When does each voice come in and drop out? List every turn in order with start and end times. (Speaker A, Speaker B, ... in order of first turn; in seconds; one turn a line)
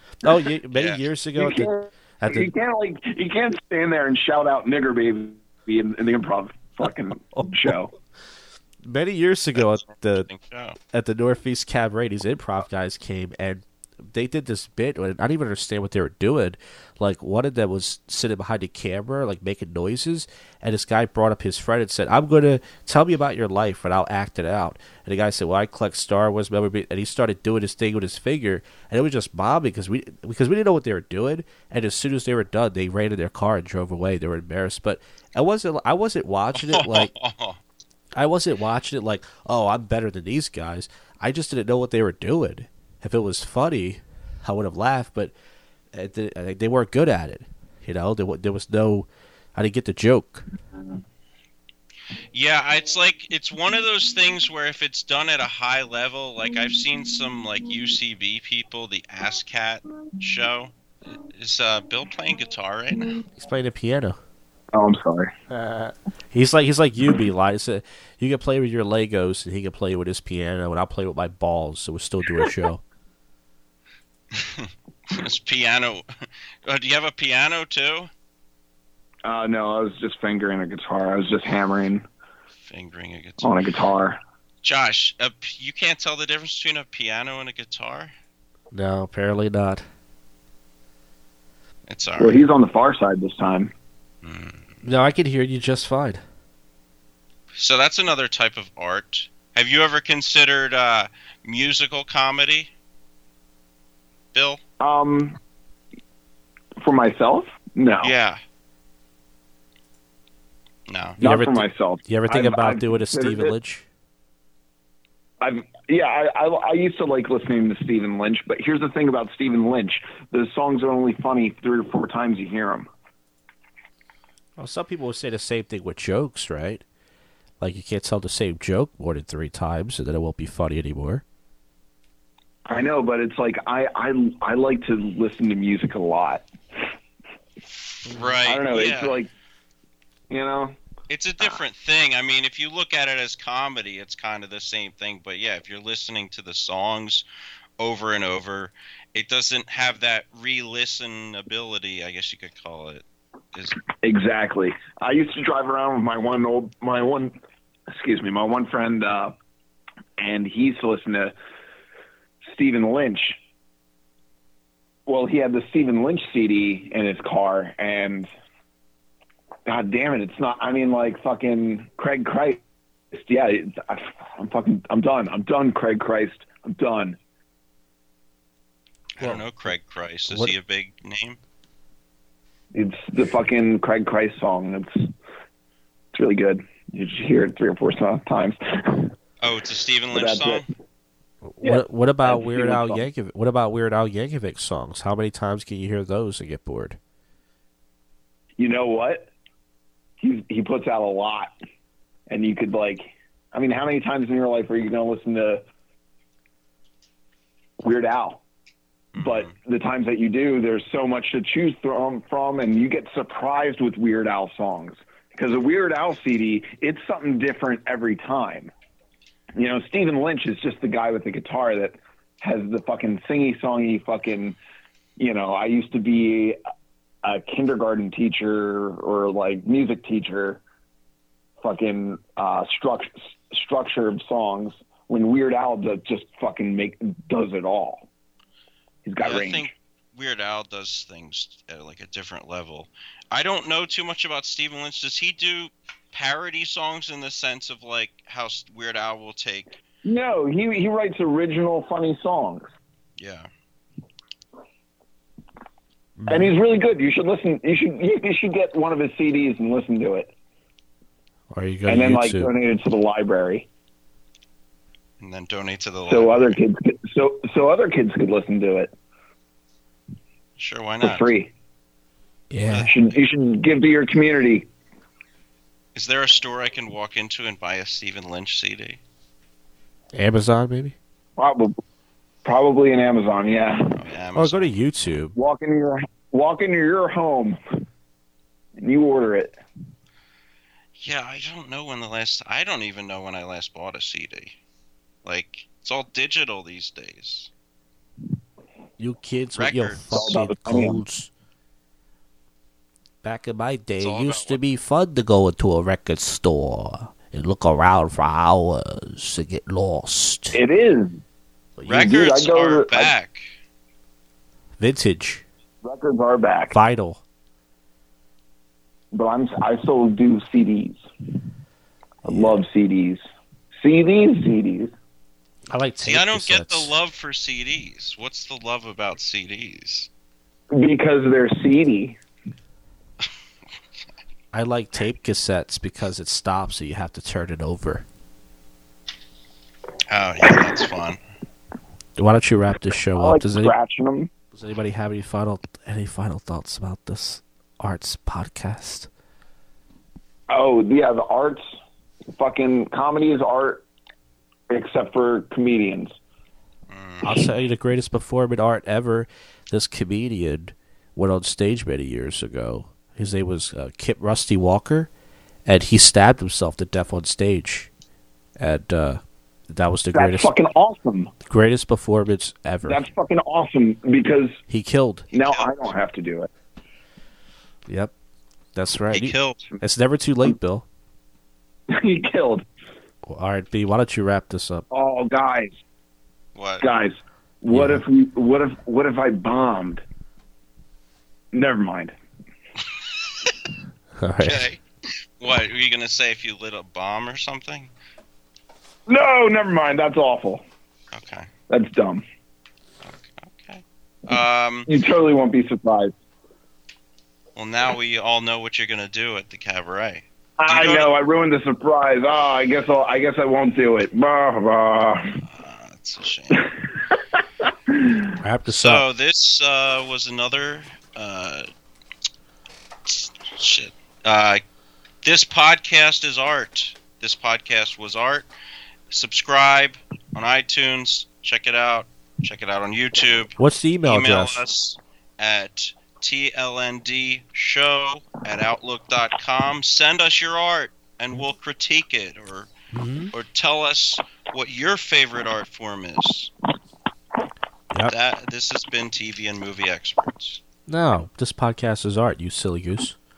Speaker A: 0.2-2.5
Speaker B: 0.7-1.0
Speaker C: 1.4-7.9
Speaker A: 7.3-7.7
Speaker A: 8.8-10.3
Speaker B: 9.6-10.8
Speaker A: 10.9-37.1
Speaker B: 36.6-37.6
Speaker A: 38.1-45.3
Speaker A: 45.9-50.5
Speaker B: 52.3-60.7
Speaker B: 61.4-63.2
Speaker A: 63.4-64.2
Speaker C: 64.7-65.3
Speaker A: 65.5-72.8
Speaker B: 74.3-76.1
Speaker B: 76.6-78.1
Speaker C: 79.2-82.0
Speaker B: 82.6-83.5
Speaker C: 83.4-84.2
Speaker B: 84.6-88.1
Speaker A: 88.7-89.8
Speaker B: 91.9-92.5
Speaker C: 92.2-93.7
Speaker B: 94.2-94.7
Speaker A: 94.8-96.2
Speaker B: 97.6-102.7
Speaker B: 104.3-104.6
Speaker C: 104.8-105.4
Speaker C: 106.8-108.1
Speaker B: 108.0-108.4
Speaker B: 110.9-111.2
Speaker A: 111.2-113.9
Speaker C: 111.2-113.5
Speaker C: 115.4-122.9
Speaker A: 124.6-126.8
Speaker A: 127.6-131.2
Speaker C: 132.7-136.5
Speaker B: 138.0-139.2
Speaker A: 138.1-138.3
Speaker C: 138.4-139.3
Speaker C: 140.3-140.8
Speaker B: 141.1-147.2
Speaker B: 147.8-153.8
Speaker C: 154.0-157.3
Speaker C: 157.9-159.3
Speaker C: 160.2-161.3
Speaker C: 162.5-163.4
Speaker C: 165.1-168.3
Speaker C: 169.7-172.6
Speaker C: 173.1-177.2
Speaker B: 179.2-181.4
Speaker A: 179.2-179.7
Speaker A: 180.3-180.6
Speaker C: 182.7-185.0
Speaker C: 186.1-189.1
Speaker B: 189.4-190.7
Speaker C: 190.1-190.7
Speaker A: 191.4-197.0
Speaker C: 191.6-193.1
Speaker C: 198.6-199.3
Speaker C: 200.2-201.5
Speaker C: 202.3-205.6
Speaker C: 207.8-208.4
Speaker B: 209.1-209.5
Speaker C: 209.2-218.7
Speaker C: 219.6-224.6
Speaker C: 225.2-226.6
Speaker C: 227.2-230.6
Speaker C: 231.6-238.1
Speaker C: 239.1-239.7
Speaker B: 239.2-249.7
Speaker C: 250.1-252.7
Speaker B: 253.2-253.5
Speaker A: 256.2-256.5
Speaker C: 256.3-260.3
Speaker A: 261.5-262.5
Speaker C: 261.9-263.7
Speaker B: 265.2-266.6
Speaker C: 266.1-268.9
Speaker B: 270.6-271.2
Speaker C: 271.0-271.5
Speaker A: 272.5-272.9
Speaker B: 272.6-273.1
Speaker C: 272.9-274.7
Speaker B: 275.9-279.0
Speaker A: 280.1-281.0
Speaker C: 281.4-281.7
Speaker C: 282.4-283.9
Speaker B: 283.9-284.8
Speaker A: 284.4-285.4
Speaker C: 285.4-287.6
Speaker C: 288.8-289.5
Speaker B: 290.9-294.6
Speaker B: 295.2-297.5
Speaker A: 299.0-301.3
Speaker B: 299.6-300.4
Speaker C: 300.1-301.0
Speaker A: 303.2-310.6
Speaker B: 304.0-304.6
Speaker C: 310.5-311.2
Speaker A: 311.8-312.1
Speaker B: 311.9-313.4
Speaker C: 311.9-313.1
Speaker A: 314.8-315.4
Speaker C: 315.8-316.8
Speaker A: 316.7-317.2
Speaker C: 319.1-321.0
Speaker A: 322.2-322.6
Speaker C: 322.2-323.2
Speaker C: 323.8-324.9
Speaker A: 325.7-326.9
Speaker B: 326.0-330.1
Speaker C: 330.7-332.2
Speaker A: 334.5-338.1
Speaker B: 340.1-341.2
Speaker A: 342.2-343.7
Speaker C: 343.2-344.3
Speaker A: 344.5-349.1
Speaker C: 350.5-351.6
Speaker C: 352.3-353.9
Speaker C: 354.7-356.2
Speaker B: 356.9-357.4
Speaker A: 357.2-365.1
Speaker A: 365.7-367.9
Speaker A: 368.6-370.5
Speaker C: 370.1-371.3
Speaker A: 371.4-373.0
Speaker C: 372.9-374.6
Speaker A: 374.7-375.3
Speaker C: 375.3-376.5
Speaker B: 375.3-375.9
Speaker A: 377.9-378.1
Speaker A: 378.8-380.9
Speaker B: 379.1-379.6
Speaker C: 381.9-382.6
Speaker A: 383.3-384.9
Speaker C: 384.9-385.7
Speaker B: 386.6-386.9
Speaker C: 386.8-390.0
Speaker A: 387.7-388.0
Speaker C: 391.5-392.1
Speaker A: 394.2-394.6
Speaker B: 394.4-394.8
Speaker B: 395.4-397.9
Speaker C: 399.1-400.6
Speaker B: 401.1-401.5
Speaker C: 401.7-402.2
Speaker B: 403.0-404.9
Speaker C: 404.9-406.1
Speaker B: 407.6-411.1
Speaker C: 410.6-415.2
Speaker B: 415.5-416.7
Speaker A: 418.4-419.0
Speaker B: 418.7-421.6
Speaker B: 423.1-424.6
Speaker B: 425.2-428.5
Speaker B: 429.1-442.7
Speaker A: 433.6-434.6
Speaker A: 442.9-443.3
Speaker B: 443.3-446.5
Speaker B: 448.1-450.6
Speaker A: 450.9-453.2